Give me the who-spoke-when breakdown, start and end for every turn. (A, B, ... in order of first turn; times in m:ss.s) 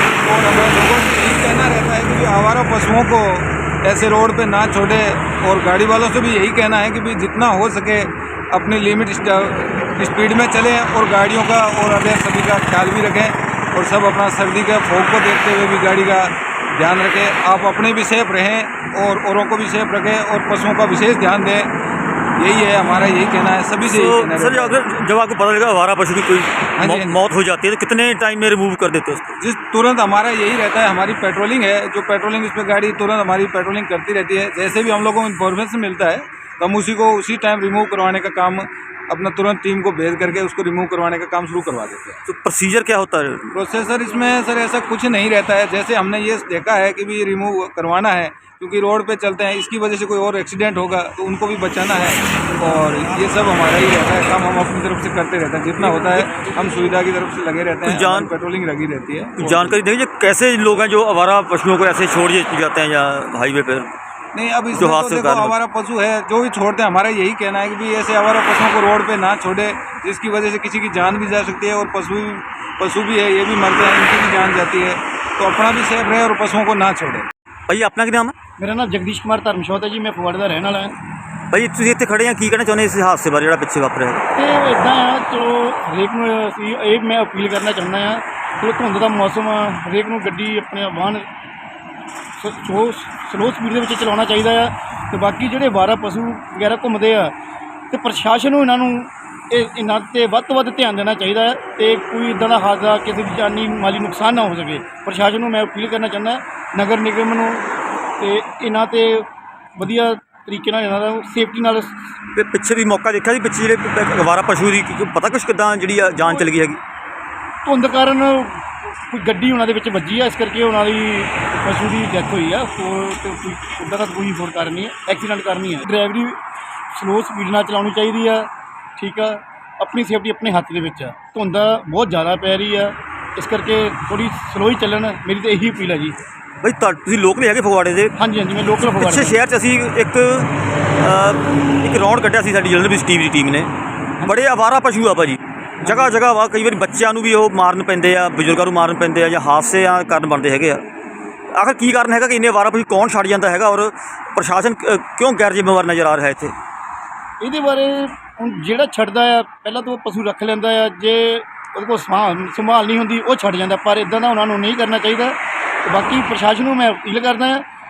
0:00.2-0:21.7 A
0:22.4-0:24.8 A
0:23.9-0:29.4 B
0:26.8-0:27.2 A
0:29.4-0:42.2 A
0:42.3-0:43.5 B
0:43.5-0:59.8 A
0:57.9-0:58.3 B
0:59.4-1:03.9 B
1:04.3-1:17.3 A
1:04.7-1:05.6 B
1:17.7-1:18.3 B
1:18.6-1:21.0 C
1:21.5-1:24.3 B
1:24.4-1:31.2 C
1:32.4-1:37.3 C
1:37.9-1:47.7 C
1:48.2-1:52.0 C
1:52.4-1:56.8 B
1:56.2-1:56.5 C
1:57.6-2:06.4 C
2:06.9-2:16.2 C
2:16.6-2:18.2 B
2:18.2-2:19.4 C
2:18.8-2:23.7 B
2:24.2-2:30.9 B
2:31.5-2:36.5 B
2:37.4-2:47.6 C